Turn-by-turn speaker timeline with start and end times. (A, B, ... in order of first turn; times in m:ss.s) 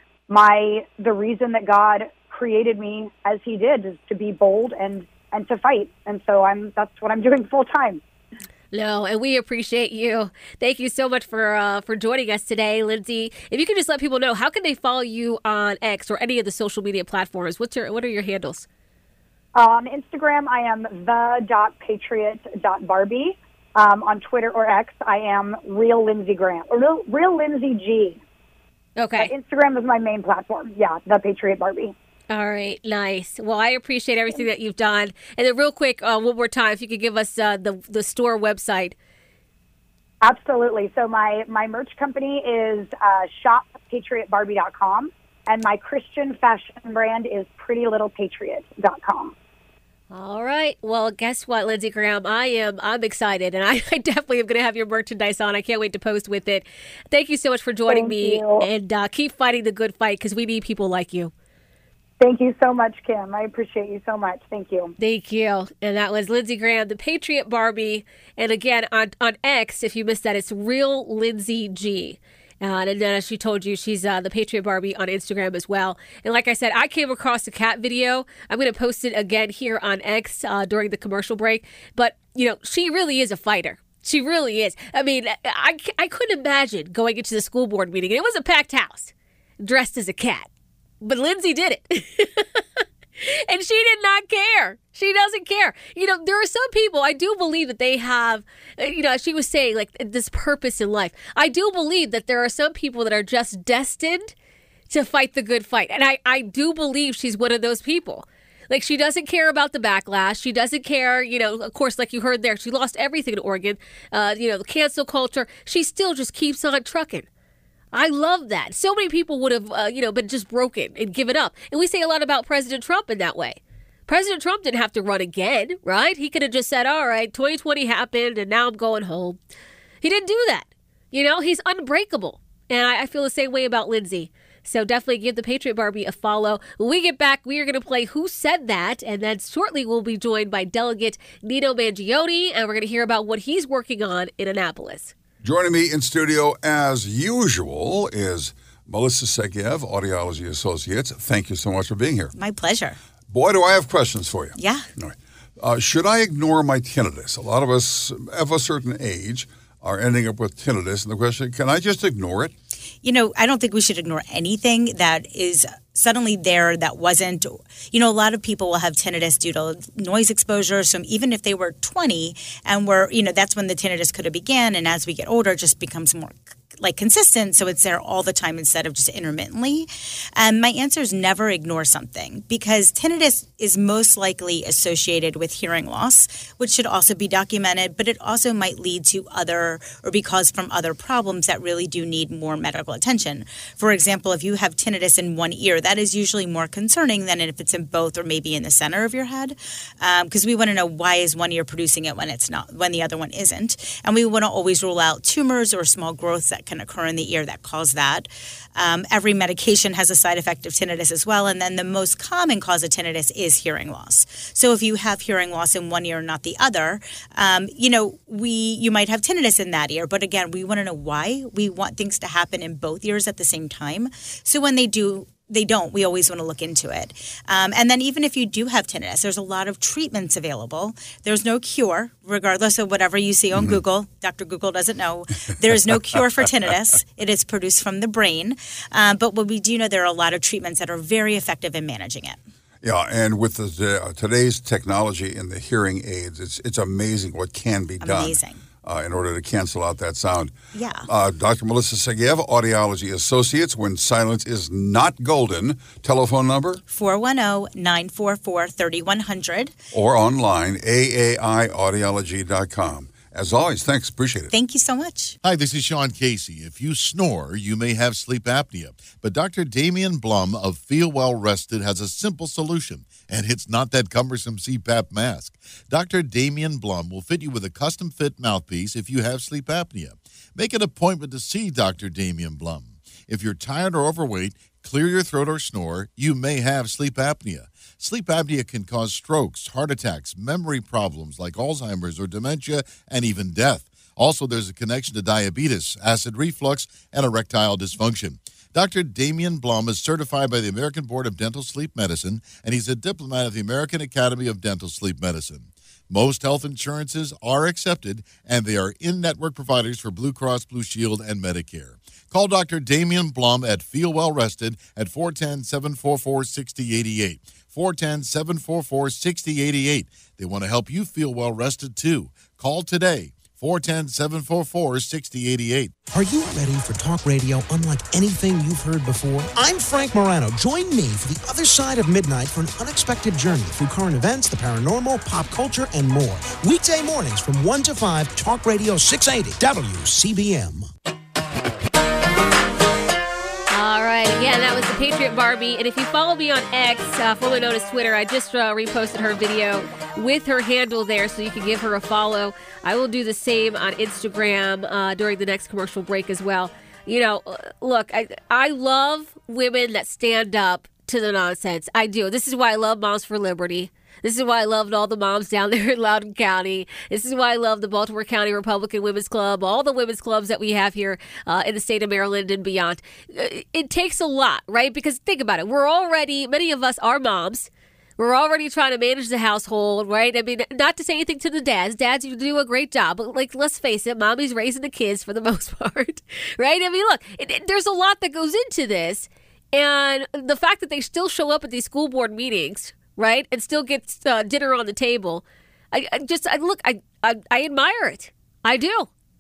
0:00.3-0:08.0 A
0:08.7-0:18.7 B
0:19.6-0:28.2 A
0:29.0-0:29.3 B
0:29.2-0:31.9 A
0:32.3-0:39.0 B
0:40.2-0:49.3 A
0:50.1-1:01.3 B
0:57.9-0:58.7 A
1:02.2-1:04.9 A
1:05.0-1:30.5 B
1:31.0-1:44.3 B
1:44.9-1:57.3 B
1:57.9-2:09.4 B
2:10.0-2:25.1 B
2:25.4-2:32.3 C
2:32.3-2:33.0 D
2:33.3-2:42.5 C
2:34.6-2:34.8 D
2:43.0-4:02.4 D
4:02.8-4:10.5 C
4:08.0-4:08.6 D
4:10.7-4:11.1 D
4:11.1-4:16.8 C
4:16.9-4:19.8 D
4:19.9-4:24.5 C
4:24.5-4:25.4 D
4:25.4-5:25.9 E
5:26.1-5:40.9 F
5:43.7-6:39.1 B